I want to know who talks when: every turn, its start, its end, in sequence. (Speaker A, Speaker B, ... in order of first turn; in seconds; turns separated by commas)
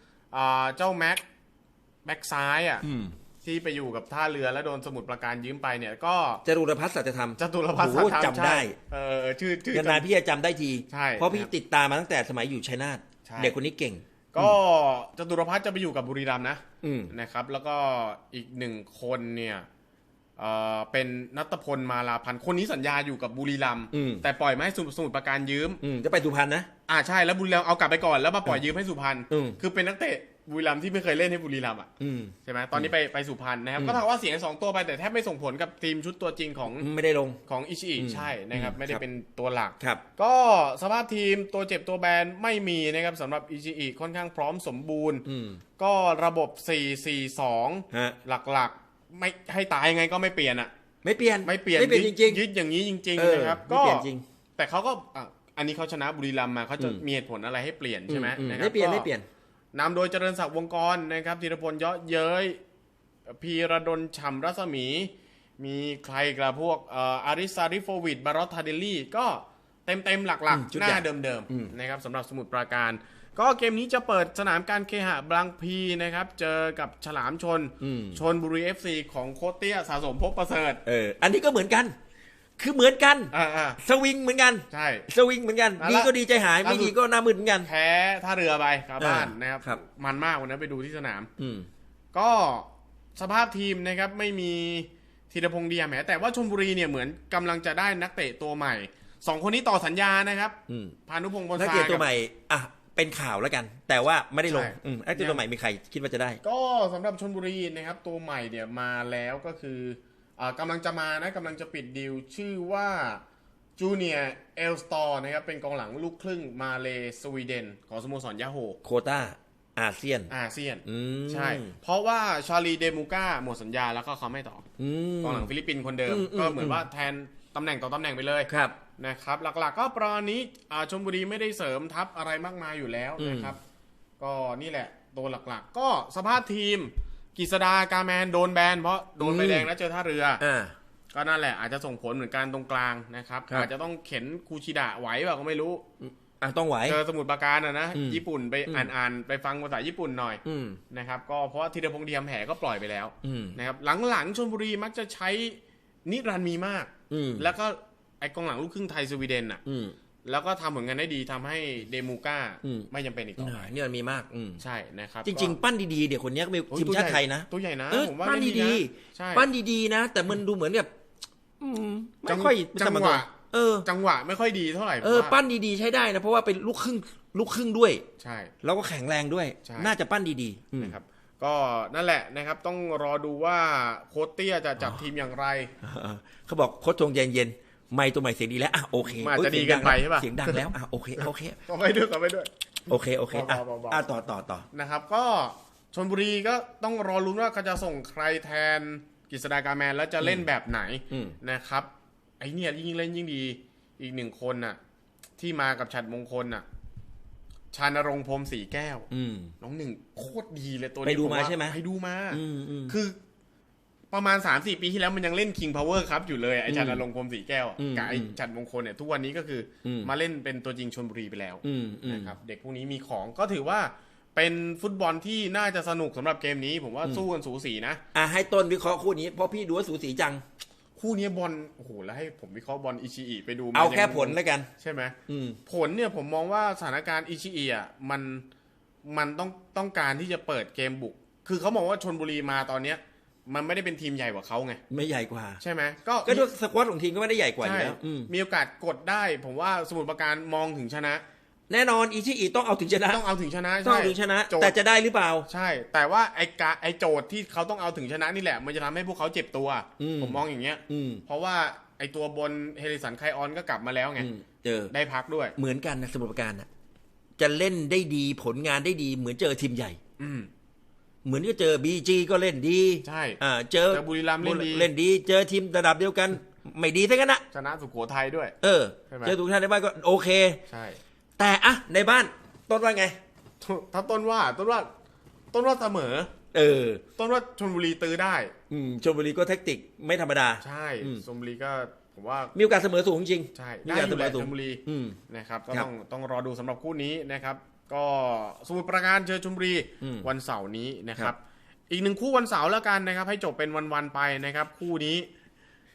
Speaker A: 0.3-1.2, Speaker A: 2.0-2.9, Speaker B: 2.8-3.1, Speaker A: 3.4-6.4, Speaker B: 6.5-8.8, Speaker A: 7.4-10.1, Speaker B: 9.7-14.6, Speaker A: 10.9-11.5, Speaker A: 13.2-13.6, Speaker A: 14.3-19.7, Speaker B: 16.8-17.1, Speaker A: 20.4-25.8, Speaker B: 23.9-24.2, Speaker B: 25.8-26.7, Speaker A: 26.9-31.9, Speaker B: 29.3-29.6, Speaker B: 32.0-32.9, Speaker A: 32.4-36.9, Speaker B: 36.8-37.4, Speaker A: 37.4-45.2, Speaker B: 38.0-39.0, Speaker B: 45.2-45.6, Speaker A: 45.8-50.7, Speaker B: 47.9-48.2, Speaker B: 51.0-52.4, Speaker A: 51.4-54.1, Speaker B: 53.2-54.2, Speaker A: 54.6-59.1, Speaker B: 58.1-59.3, Speaker A: 59.7-62.6, Speaker A: 63.3-80.8, Speaker B: 70.5-71.7, Speaker B: 77.8-78.2, Speaker B: 80.8-81.9, Speaker B: 82.6-87.7, Speaker A: 83.3-83.8, Speaker A: 84.7-85.1, Speaker A: 85.8-86.1, Speaker A: 86.6-86.9, Speaker A: 87.6-91.3, Speaker B: 89.0-89.8, Speaker B: 91.4-91.7, Speaker A: 92.1-102.1, Speaker B: 100.7-101.0, Speaker B: 101.6-106.4, Speaker A: 104.5-105.4, Speaker A: 106.4-113.2, Speaker A: 113.8-118.8, Speaker B: 118.8-120.3, Speaker A: 120.3-124.7, Speaker B: 120.8-121.8, Speaker B: 124.8-125.5, Speaker A: 125.2-133.6, Speaker B: 126.1-126.8, Speaker B: 128.5-128.8, Speaker B: 133.2-133.5, Speaker A: 134.2-140.4, Speaker B: 139.2-139.7, Speaker B: 140.4-140.7, Speaker A: 141.1-145.8, Speaker B: 146.0-147.0, Speaker A: 146.8-159.6, Speaker B: 147.9-148.9, Speaker B: 150.4-150.8, Speaker B: 153.2-153.6, Speaker B: 157.1-157.5, Speaker B: 159.7-159.9, Speaker A: 160.2-163.7, Speaker B: 162.6-164.6, Speaker A: 164.6-165.6, Speaker B: 165.2-170.9, Speaker A: 166.7-169.5, Speaker B: 171.6-173.9, Speaker A: 172.3-175.4, Speaker B: 175.0-178.0, Speaker A: 178.2-178.5, Speaker B: 178.6-181.0, Speaker A: 179.6-179.9, Speaker A: 180.8-185.7, Speaker B: 185.8-191.6, Speaker A: 189.2-190.7, Speaker A: 191.2-194.1, Speaker B: 192.9-194.7, Speaker A: 194.7-201.9, Speaker B: 200.2-200.5, Speaker B: 201.1-201.3, Speaker A: 202.4-204.8, Speaker A: 205.4-206.7, Speaker A: 207.7-209.1, Speaker B: 209.1-209.5, Speaker A: 209.6-213.2, Speaker B: 211.0-211.8, Speaker B: 212.3-212.9, Speaker A: 214.1-228.0, Speaker B: 216.7-217.0, Speaker B: 217.8-218.3, Speaker B: 219.8-220.1, Speaker B: 221.6-222.3, Speaker B: 228.1-230.4, Speaker A: 231.0-238.4, Speaker B: 233.7-234.7, Speaker B: 235.3-235.6, Speaker A: 239.0-244.8, Speaker B: 244.9-245.6, Speaker A: 245.6-246.5, Speaker B: 246.2-248.3, Speaker A: 247.6-251.2, Speaker B: 251.7-253.2, Speaker A: 253.1-254.8, Speaker B: 253.8-255.5, Speaker A: 255.4-264.3, Speaker B: 260.0-261.2, Speaker B: 264.2-264.9, Speaker A: 264.9-265.6, Speaker B: 265.6-266.7, Speaker B: 267.4-270.0, Speaker A: 270.2-270.5, Speaker B: 271.2-277.4, Speaker A: 273.0-273.4, Speaker A: 273.9-274.9, Speaker A: 277.5-278.6, Speaker B: 278.6-280.6, Speaker A: 279.1-279.4, Speaker A: 280.7-281.0, Speaker B: 281.4-283.2, Speaker A: 283.6-284.9, Speaker A: 285.5-286.3, Speaker B: 286.5-287.0, Speaker A: 287.1-288.5, Speaker B: 288.7-291.2, Speaker A: 290.6-292.5, Speaker B: 292.6-295.2, Speaker A: 293.5-301.4, Speaker B: 300.0-300.3, Speaker A: 301.9-305.3